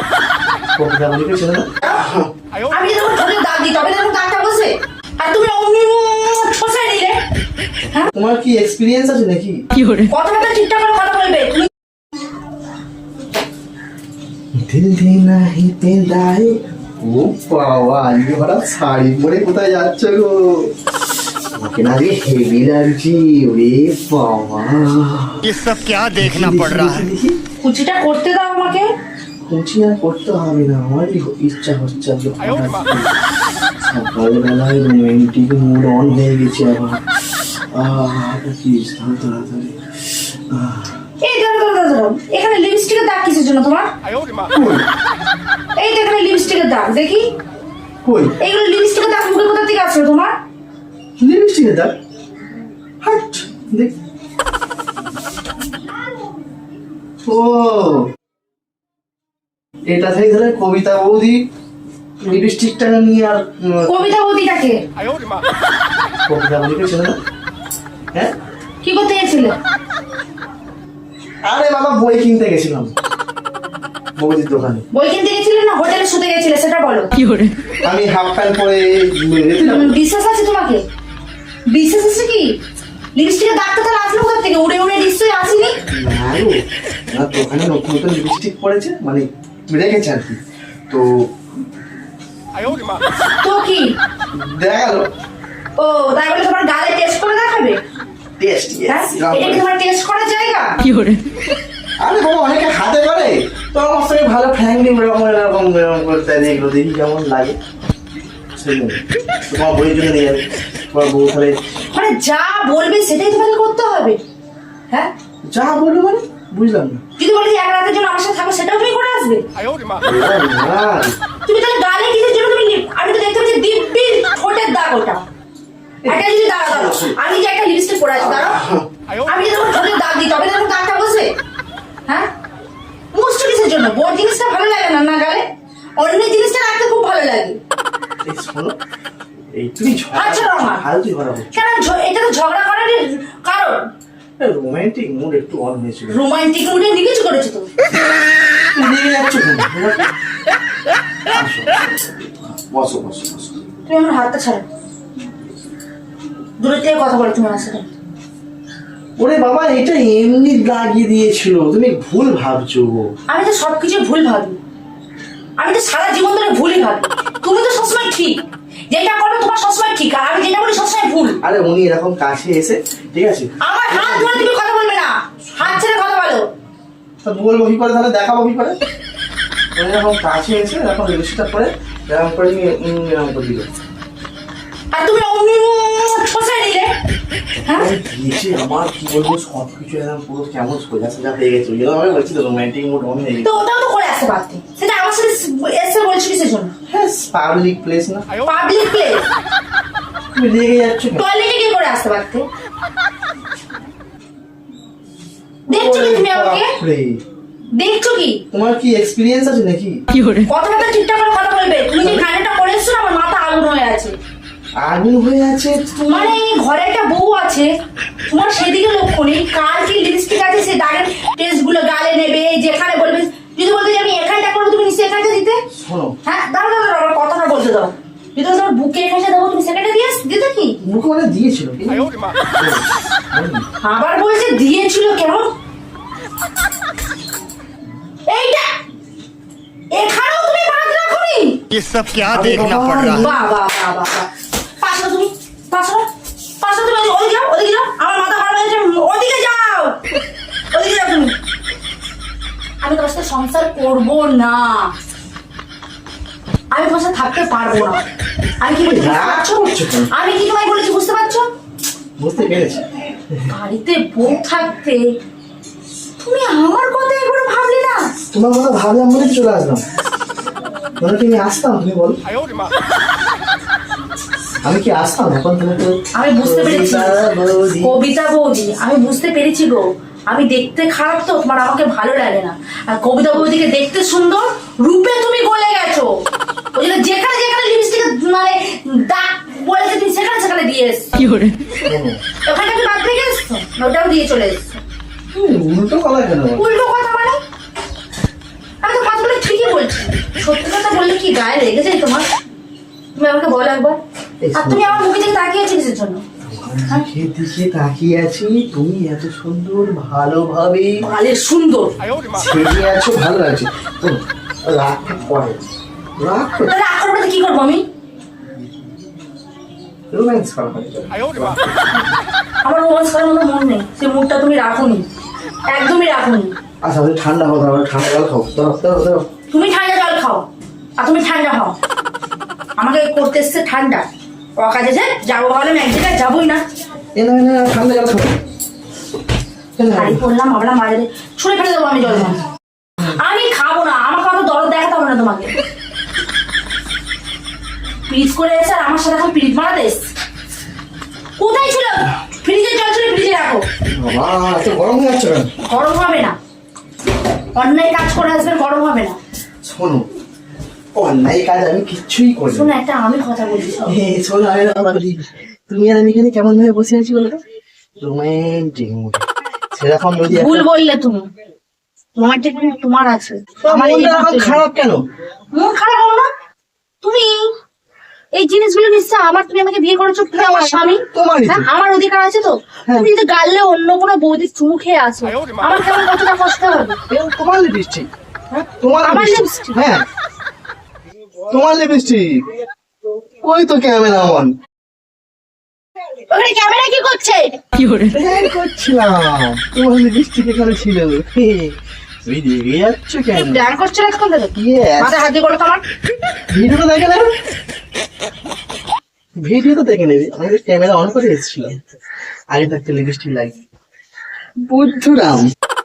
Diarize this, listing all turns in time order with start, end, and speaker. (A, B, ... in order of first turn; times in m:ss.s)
0:00.8-0:02.3 A
0:02.7-0:07.2 B
0:08.1-0:09.6 A
0:10.0-0:11.7 B
0:14.6-0:20.8 A
0:21.5-0:25.5 A
0:25.4-0:27.1 C
0:26.2-0:27.4 A
0:27.6-0:28.9 B
0:29.4-0:33.1 A
0:33.8-0:41.0 A
0:41.2-0:43.9 B
0:44.5-0:44.8 A
0:45.8-0:47.3 B
0:48.0-0:48.4 A
0:48.4-0:50.3 B
0:51.2-0:51.9 A
0:53.0-0:53.9 A
0:57.2-0:58.1 A
0:59.9-1:01.4 A
1:02.2-1:04.1 A
1:03.9-1:04.8 B
1:06.3-1:07.2 A
1:08.8-1:09.6 B
1:11.4-1:12.9 A
1:14.2-1:14.8 A
1:14.9-1:17.2 B
1:17.8-1:20.0 A
1:19.6-1:20.8 B
1:21.7-1:22.6 B
1:23.1-1:25.7 B
1:25.9-1:26.6 A
1:27.1-1:30.4 A
1:30.9-1:31.2 A
1:33.4-1:33.9 B
1:34.3-1:35.1 A
1:35.8-1:37.8 B
1:38.4-1:39.6 A
1:38.9-1:41.1 B
1:42.0-1:47.6 A
1:48.5-1:51.6 A
1:51.9-1:54.2 B
1:55.4-1:57.0 A
1:57.2-1:59.4 B
2:00.0-2:01.1 A
2:01.4-2:05.2 B
2:06.0-2:07.2 A
2:06.0-2:08.6 B
2:08.1-2:08.9 A
2:09.2-2:11.3 B
2:13.1-2:15.4 B
2:16.0-2:17.6 B
2:18.2-2:18.8 A
2:19.5-2:21.6 A
2:20.1-2:20.8 B
2:21.5-2:23.9 B
2:24.4-2:26.2 A
2:26.1-2:27.7 B
2:28.7-2:30.1 A
2:31.3-2:33.6 A
2:33.8-2:34.6 B
2:36.6-2:37.9 B
2:39.2-2:43.1 A
2:43.3-2:44.6 B
2:45.6-2:51.4 B
2:51.4-2:54.5 A
2:53.6-2:56.5 B
2:55.5-2:55.8 A
2:57.2-2:58.8 A
2:59.7-3:03.7 A
3:04.9-3:06.9 B
3:07.6-3:07.9 B
3:07.6-3:13.6 A
3:13.4-3:16.7 B
3:16.9-3:18.2 A
3:18.4-3:19.2 B
3:20.3-3:21.2 A
3:21.1-3:22.4 B
3:25.7-3:26.7 B
3:25.7-3:27.2 A
3:27.8-3:28.4 B
3:28.5-3:30.0 A
3:30.4-3:34.1 B
3:32.0-3:32.2 A
3:34.8-3:36.4 A
3:36.0-3:37.7 B
3:38.3-3:45.6 B
3:45.8-3:46.1 A
3:46.2-3:50.8 B
3:50.8-3:53.6 A
3:53.8-3:55.5 B
3:58.3-3:58.7 B
3:59.9-4:01.6 B
4:01.7-4:03.3 C
4:02.3-4:03.4 A
4:03.1-4:06.1 B
4:06.6-4:10.0 B
4:10.7-4:11.3 B
4:12.8-4:14.9 B
4:16.7-4:18.0 B
4:18.6-4:21.5 B
4:18.8-4:20.1 A
4:22.2-4:23.5 A
4:23.5-4:25.1 B
4:26.2-4:28.1 B
4:28.3-4:29.8 A
4:31.0-4:32.2 A
4:34.6-4:38.0 A
4:36.1-4:37.2 B
4:37.8-4:46.1 B
4:46.7-4:51.3 B
4:51.8-4:52.2 A
4:52.4-4:54.8 B
4:55.3-4:56.7 A
4:56.6-4:57.4 B
4:58.8-5:02.3 B
5:03.2-5:04.0 B
5:04.4-5:05.0 A
5:04.5-5:06.2 B
5:06.4-5:11.0 A
5:11.0-5:11.9 B
5:12.3-5:15.6 A
5:16.2-5:16.7 A
5:16.6-5:17.8 B
5:20.1-5:22.1 A
5:22.6-5:25.0 B
5:25.7-5:26.5 B
5:26.8-5:29.2 A
5:29.5-5:30.4 B
5:31.0-5:31.8 B
5:32.8-5:34.0 B
5:34.6-5:36.6 B
5:37.1-5:38.3 A
5:39.8-5:40.2 A
5:39.9-5:42.4 B
5:43.0-5:45.5 B
5:48.1-5:50.0 B
5:51.4-5:53.6 B
5:53.9-5:55.5 A
5:55.6-5:56.4 B
5:57.5-5:59.2 B
5:59.6-6:00.1 A
6:00.9-6:02.7 A
6:02.5-6:04.0 B
6:03.8-6:07.4 A
6:08.0-6:10.7 A
6:10.3-6:11.3 B
6:12.2-6:14.6 B
6:13.6-6:15.0 A
6:15.5-6:16.3 B
6:17.0-6:17.5 B
6:18.3-6:27.0 B
6:20.3-6:21.6 A
6:22.8-6:23.1 A
6:27.1-6:28.1 A
6:28.5-6:29.8 B
6:28.8-6:30.0 A
6:31.5-6:32.4 A
6:33.4-6:34.5 A
6:36.3-6:37.7 B
6:38.1-6:43.6 A
6:43.3-6:45.8 B
6:44.5-6:45.2 A
6:46.5-6:47.3 A
6:49.4-6:51.8 A
6:52.5-6:53.6 A
6:54.6-6:55.5 A